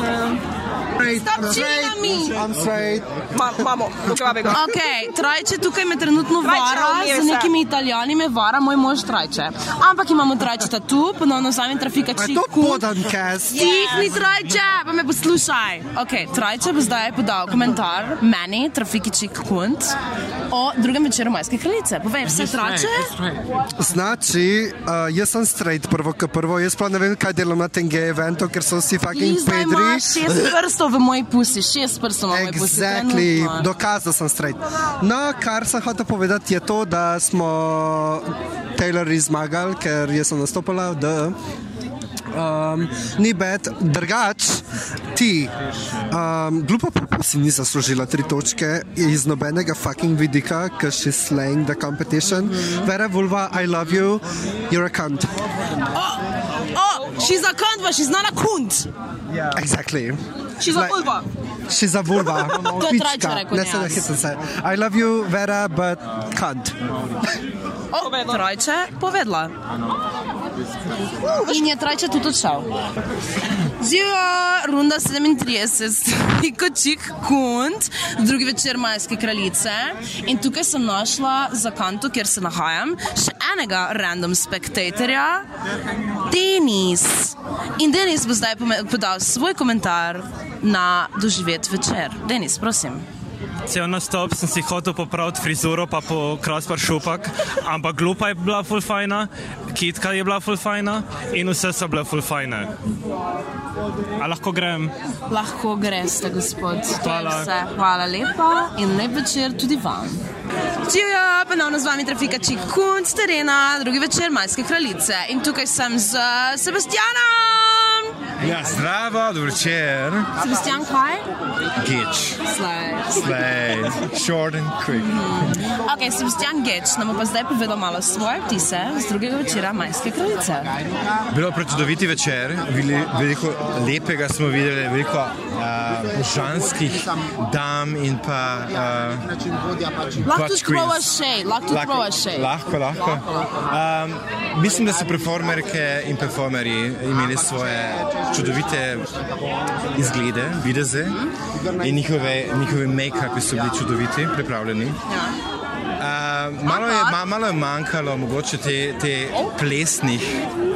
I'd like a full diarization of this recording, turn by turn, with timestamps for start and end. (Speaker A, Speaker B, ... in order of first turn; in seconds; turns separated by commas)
Speaker A: 1.0-2.4, Speaker B: 1.0-3.1, Speaker C: 3.3-4.7, Speaker A: 4.5-12.9, Speaker C: 6.4-7.5, Speaker B: 12.2-13.7, Speaker A: 13.5-19.9, Speaker C: 13.6-13.9, Speaker A: 20.5-23.1, Speaker B: 23.8-30.5, Speaker A: 29.1-33.7, Speaker B: 32.3-41.4, Speaker B: 42.3-45.5, Speaker B: 46.1-55.4, Speaker A: 52.3-52.9, Speaker A: 55.9-58.9, Speaker B: 59.5-61.0, Speaker A: 60.6-61.2, Speaker B: 61.7-66.8, Speaker A: 62.2-64.1, Speaker A: 67.9-69.5, Speaker C: 68.0-68.4, Speaker A: 71.4-72.7, Speaker A: 73.8-85.5, Speaker A: 86.3-93.0, Speaker D: 93.7-102.7, Speaker D: 104.2-104.9, Speaker A: 105.3-110.2, Speaker D: 107.0-107.5, Speaker A: 110.8-118.2, Speaker E: 118.4-120.3, Speaker A: 120.4-121.3, Speaker E: 121.8-122.4, Speaker A: 122.4-123.9, Speaker E: 123.1-125.6, Speaker A: 124.9-130.7, Speaker E: 131.3-139.3, Speaker E: 140.2-141.0, Speaker A: 140.2-142.5, Speaker E: 141.7-149.1, Speaker E: 149.9-151.2, Speaker E: 151.8-155.0, Speaker A: 155.1-155.3, Speaker E: 156.0-160.4, Speaker A: 156.6-157.2